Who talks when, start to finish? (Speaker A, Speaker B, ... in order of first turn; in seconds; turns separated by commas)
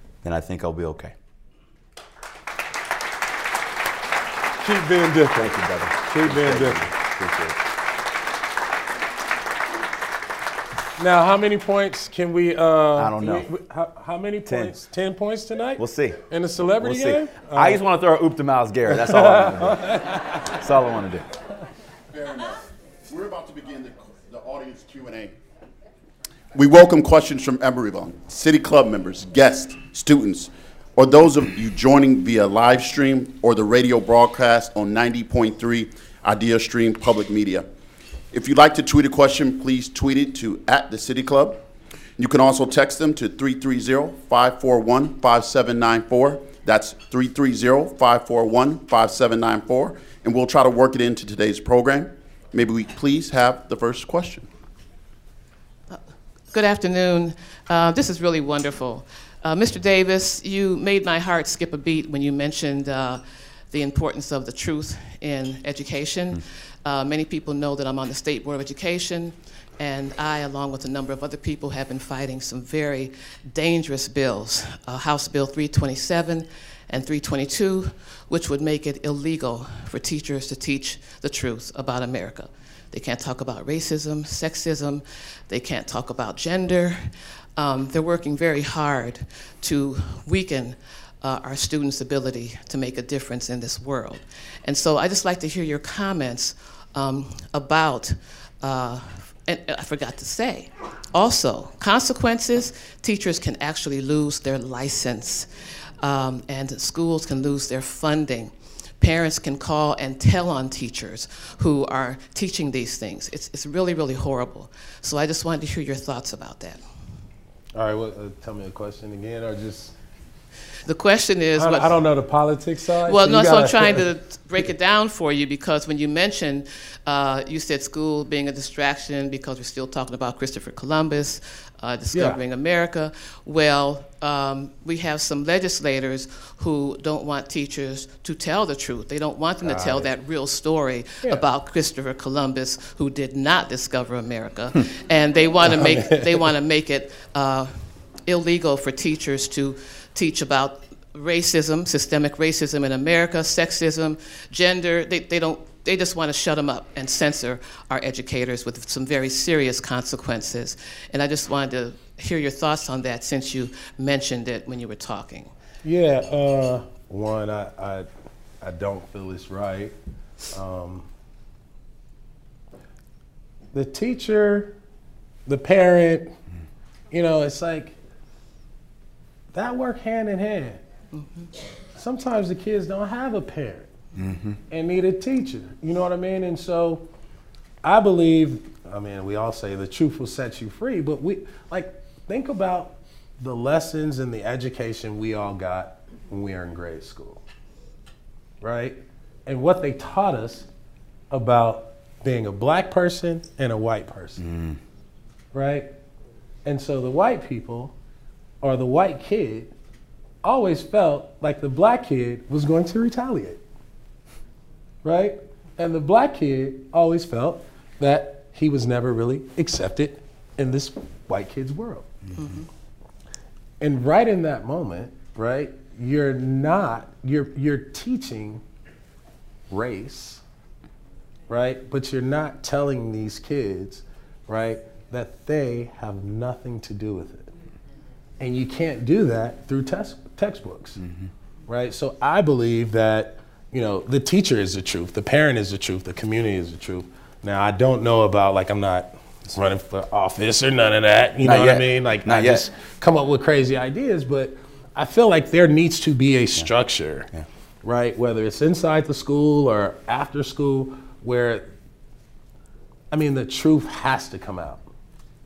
Speaker A: 0.2-1.1, Speaker B: 4.6-5.5, Speaker A: 5.3-7.6, Speaker B: 6.0-6.9, Speaker B: 11.0-17.8, Speaker A: 12.9-13.5, Speaker A: 14.4-14.8, Speaker A: 15.8-16.2, Speaker A: 16.8-21.3, Speaker B: 18.9-20.4, Speaker C: 22.1-25.3, Speaker C: 26.5-37.6, Speaker C: 38.3-41.6, Speaker C: 42.2-54.5, Speaker D: 55.9-105.5, Speaker D: 106.0-116.8, Speaker B: 117.7-119.9, Speaker D: 120.8-122.0, Speaker B: 121.5-124.0, Speaker D: 123.0-165.5, Speaker B: 132.1-132.4, Speaker B: 139.6-140.1, Speaker B: 145.7-146.4, Speaker B: 165.8-168.1, Speaker B: 168.6-169.9, Speaker B: 170.5-171.1, Speaker B: 173.7-174.7, Speaker B: 175.4-176.3, Speaker B: 177.1-177.9, Speaker B: 179.5-180.8, Speaker D: 181.1-181.5, Speaker B: 181.9-183.9, Speaker A: 184.2-184.6, Speaker B: 184.7-187.1, Speaker B: 187.8-197.4, Speaker B: 198.6-200.7, Speaker B: 201.3-204.4, Speaker A: 204.4-204.8, Speaker B: 205.5-205.9, Speaker B: 206.6-207.9, Speaker B: 208.6-209.7, Speaker B: 210.4-213.6, Speaker B: 215.0-222.1, Speaker D: 222.3-222.7, Speaker B: 223.8-228.6, Speaker B: 229.7-230.4, Speaker B: 231.5-237.5, Speaker B: 238.4-241.0, Speaker B: 241.7-257.3, Speaker A: 251.4-252.7, Speaker B: 257.8-261.7, Speaker B: 263.1-264.8